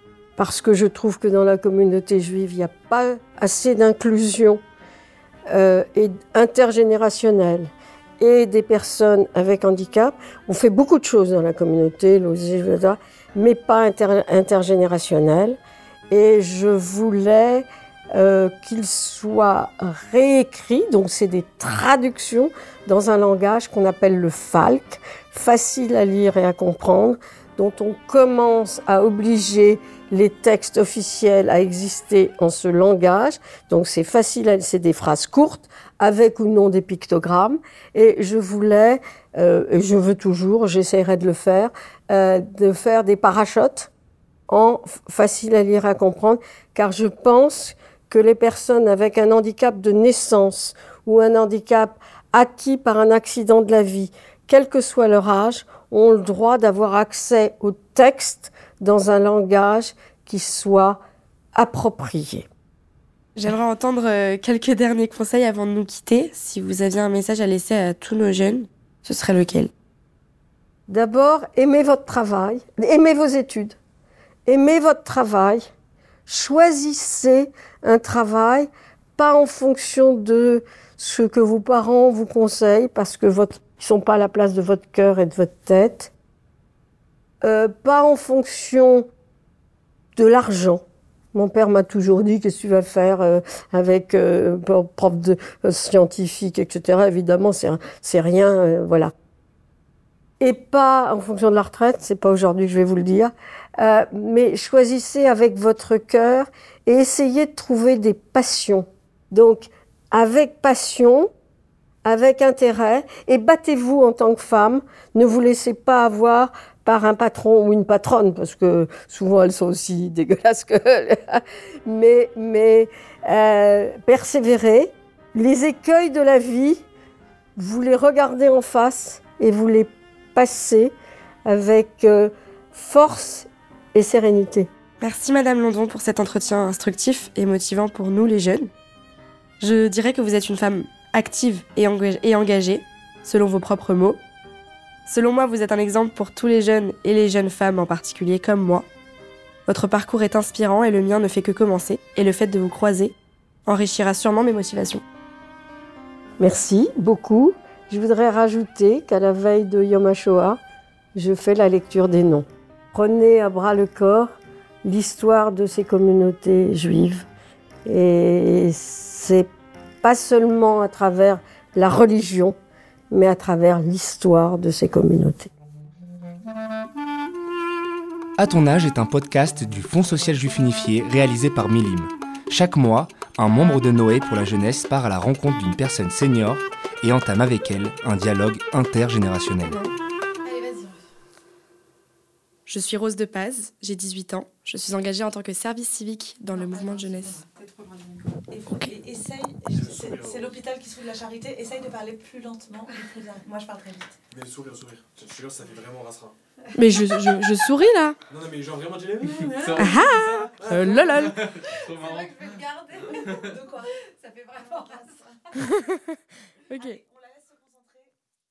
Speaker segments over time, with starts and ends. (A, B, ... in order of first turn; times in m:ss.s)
0:00.4-0:04.6 A
0:05.5-0:15.6 A
0:16.1-0:43.9 A
0:44.5-1:01.0 A
1:01.5-1:02.4 A
1:03.4-1:09.7 B
1:10.9-1:13.8 A
1:14.4-1:15.7 A
1:16.3-1:26.1 A
1:27.4-1:29.1 A
1:30.2-1:30.8 A
1:31.3-1:39.1 A
1:40.4-1:51.3 A
1:52.0-2:06.8 A
2:07.6-2:10.9 A
2:11.4-2:14.7 A
2:15.0-2:18.7 B
2:19.6-2:24.2 B
2:25.0-2:28.8 B
2:29.7-2:33.1 B
2:33.6-2:35.0 B
2:36.4-2:40.6 A
2:41.1-2:47.2 A
2:47.8-2:49.5 A
2:50.0-2:52.5 A
2:53.1-2:55.5 A
2:58.4-3:09.8 C
3:09.6-3:09.9 B
3:10.4-3:11.0 D
3:12.7-3:17.4 B
3:16.5-3:24.2 D
3:19.7-3:20.6 E
3:24.3-3:26.3 E
3:26.7-3:28.2 B
3:28.3-3:32.3 E
3:29.5-3:29.8 D
3:29.7-3:31.4 B
3:31.5-3:35.9 D
3:35.6-3:35.9 B
3:36.7-3:37.0 B
3:36.7-3:38.1 D